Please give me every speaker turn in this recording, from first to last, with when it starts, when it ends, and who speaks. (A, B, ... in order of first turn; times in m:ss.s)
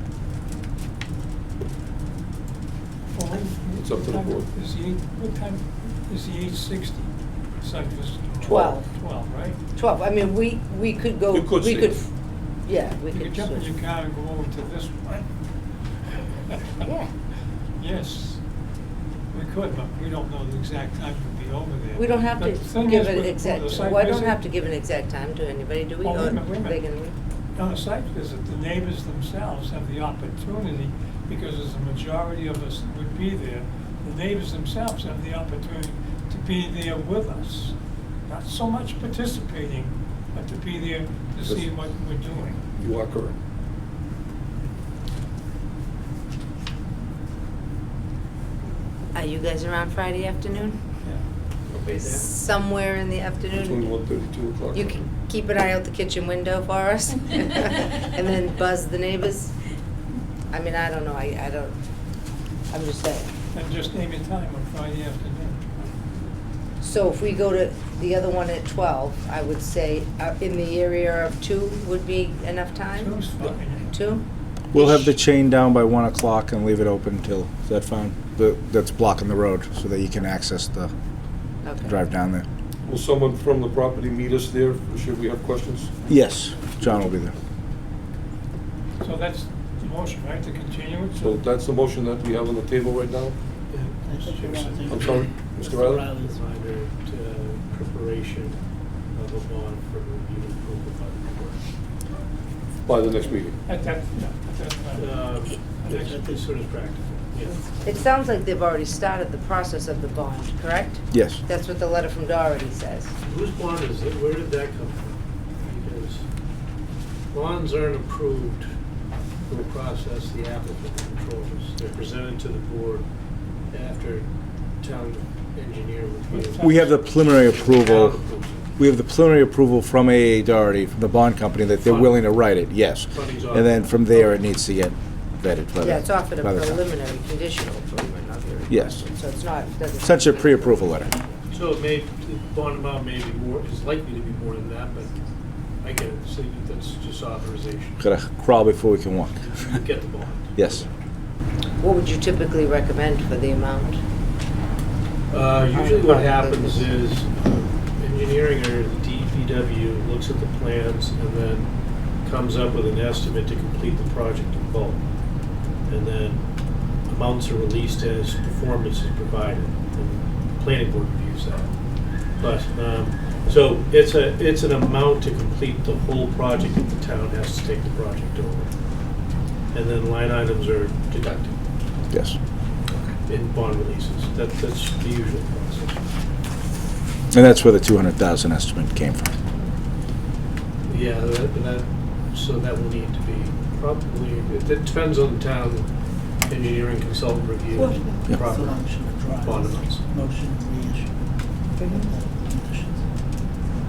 0:03.1-0:09.6 A
0:03.8-0:04.5 B
0:08.4-0:08.9 C
0:09.8-0:12.1 C
0:11.3-0:12.0 B
0:12.7-0:13.7 C
0:13.1-0:15.3 A
0:16.5-0:16.8 A
0:16.8-0:17.1 C
0:17.8-0:18.4 A
0:19.3-0:24.4 A
0:22.0-0:27.2 C
0:26.0-0:26.8 A
0:27.6-0:37.8 A
0:38.3-0:42.6 A
0:42.8-0:43.4 B
0:49.1-0:50.8 C
0:51.9-0:53.9 C
0:51.9-0:52.2 D
0:53.5-0:55.1 B
0:54.7-0:59.6 C
1:00.5-1:01.8 C
1:02.7-1:03.3 C
1:03.5-1:05.6 A
1:06.8-1:15.2 C
1:13.0-1:13.9 A
1:14.7-1:20.9 E
1:21.6-1:22.0 C
1:21.8-1:22.5 E
1:22.8-1:26.1 B
1:26.1-1:27.4 E
1:26.6-1:27.2 B
1:29.0-1:31.4 A
1:31.2-1:33.4 B
1:33.7-1:35.4 D
1:34.0-1:36.4 F
1:34.9-1:36.1 B
1:36.2-1:41.6 D
1:42.8-1:43.6 B
1:43.6-1:45.2 A
1:44.9-1:47.6 D
1:45.8-1:46.2 A
1:46.0-1:46.4 F
1:47.5-1:53.1 C
1:51.1-1:51.4 E
1:53.2-1:56.3 D
1:57.3-1:58.7 D
1:59.5-2:03.1 D
2:03.7-2:04.3 D
2:04.8-2:08.7 D
2:06.3-2:06.9 A
2:06.6-2:16.8 E
2:11.8-2:12.5 D
2:13.1-2:14.2 D
2:15.8-2:21.3 C
2:18.7-2:19.0 E
2:20.0-2:21.1 E
2:21.5-2:25.2 D
2:25.8-2:28.0 D
2:28.0-2:29.5 E
2:29.4-2:30.9 D
2:30.6-2:30.9 E
2:31.8-2:34.0 C
2:35.3-2:45.0 D
2:35.7-2:36.8 C
2:45.8-2:46.5 D
2:47.0-2:58.7 D
2:59.7-3:01.6 D
3:02.1-3:02.4 E
3:03.2-3:06.0 D
3:07.3-3:09.3 E
3:10.9-3:15.9 D
3:16.5-3:20.0 D
3:17.8-3:18.2 C
3:18.0-3:21.2 F
3:21.8-3:22.1 C
3:22.0-3:23.1 F